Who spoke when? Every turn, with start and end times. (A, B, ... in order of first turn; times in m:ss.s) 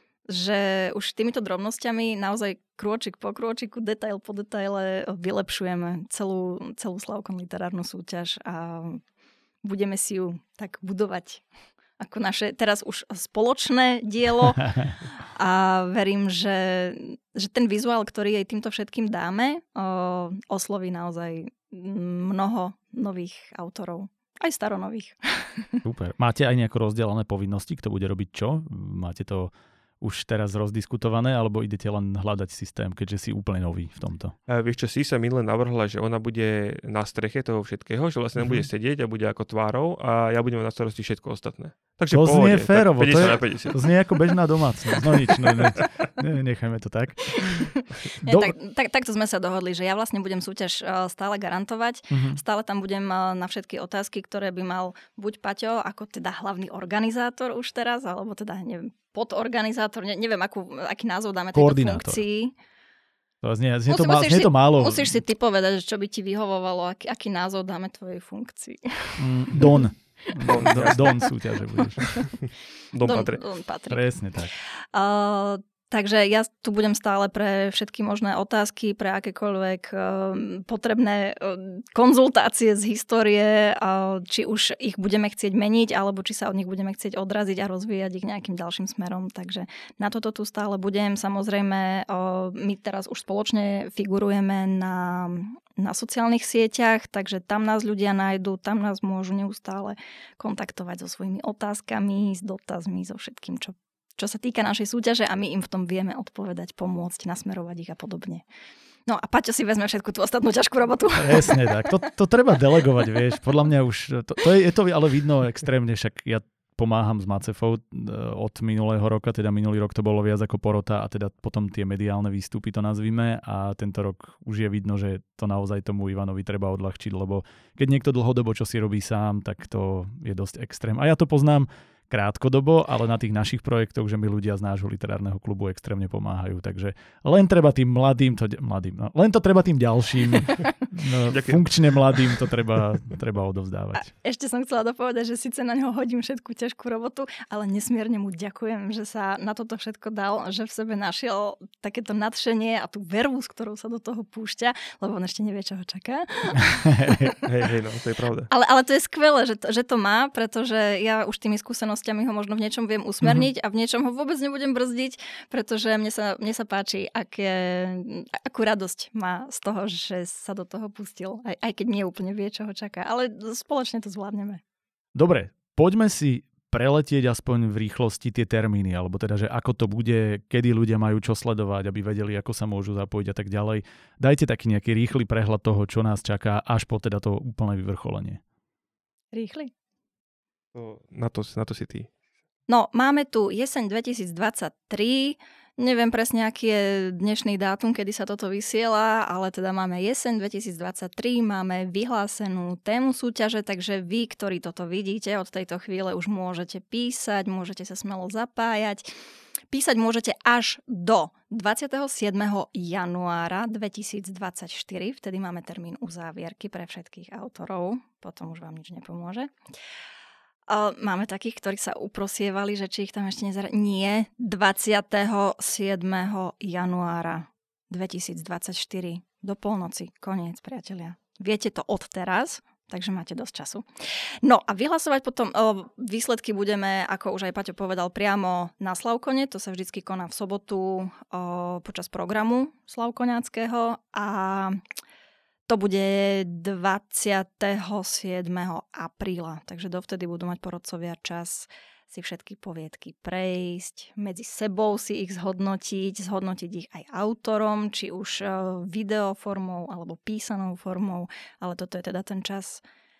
0:00.3-0:09.0 A
0:09.6-0:11.4 A
0:12.0-0:14.7 A
0:15.3-0:25.8 A
0:25.8-0:34.4 B
0:34.5-0:43.8 C
0:38.4-0:38.6 B
0:42.1-0:47.6 B
0:47.4-1:02.6 A
0:48.3-0:48.5 B
0:52.1-0:52.4 B
1:01.6-1:02.2 B
1:03.4-1:05.1 B
1:03.9-1:11.3 A
1:09.2-1:12.1 B
1:10.4-1:11.3 C
1:12.1-1:13.4 C
1:13.0-1:14.0 A
1:13.9-1:14.5 B
1:14.9-1:48.4 A
1:49.1-1:51.9 A
1:51.2-2:24.1 B
2:21.3-2:22.5 C
2:24.0-2:37.4 A
2:37.4-2:38.5 C
2:38.5-2:54.6 A
2:55.1-3:08.4 B
3:09.3-3:09.7 A
3:10.8-3:12.1 C
3:12.7-3:29.1 A
3:29.7-3:39.5 A
3:40.7-3:53.9 A
3:54.4-4:04.8 A
4:05.7-4:22.8 A